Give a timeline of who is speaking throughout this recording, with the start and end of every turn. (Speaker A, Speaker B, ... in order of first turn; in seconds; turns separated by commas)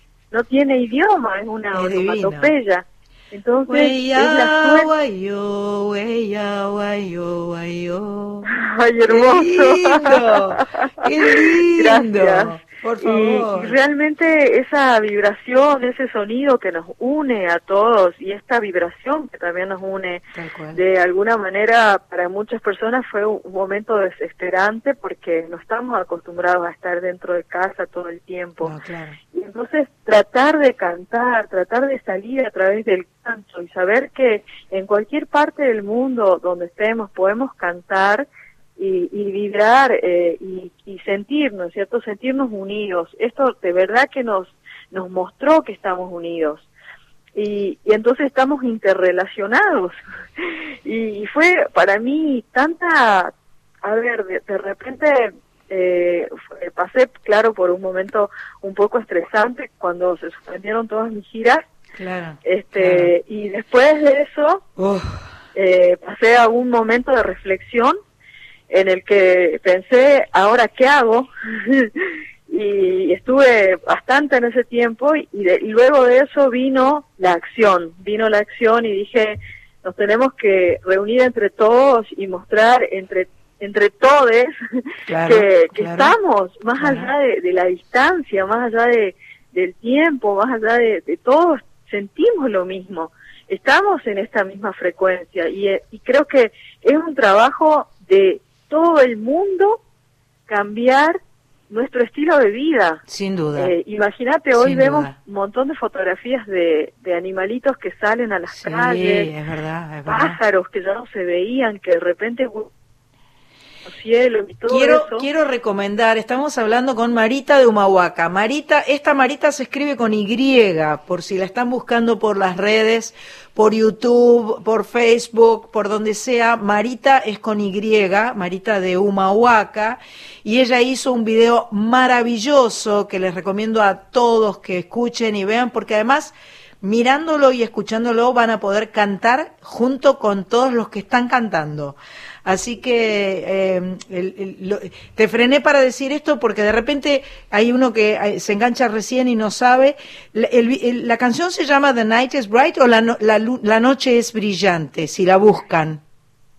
Speaker A: 0.3-4.9, Speaker B: 1.7-2.5, Speaker B: 3.7-8.5, Speaker A: 8.5-20.2, Speaker B: 9.1-13.7, Speaker B: 20.3-20.8, Speaker A: 20.7-28.7, Speaker B: 28.6-29.2, Speaker A: 29.3-46.7, Speaker A: 47.3-50.0, Speaker A: 50.8-53.3, Speaker A: 53.8-61.6, Speaker B: 62.0-63.1, Speaker A: 62.4-64.6, Speaker B: 64.8-65.2, Speaker A: 65.5-68.0, Speaker A: 68.7-71.9, Speaker A: 72.5-84.5, Speaker B: 85.1-86.1, Speaker A: 85.2-99.8, Speaker B: 86.8-87.1, Speaker A: 100.5-101.2, Speaker A: 101.7-103.0, Speaker B: 103.1-103.7, Speaker A: 103.6-109.3, Speaker B: 104.5-105.1, Speaker B: 108.5-110.4, Speaker A: 110.0-112.7, Speaker A: 113.8-115.2, Speaker B: 114.7-156.0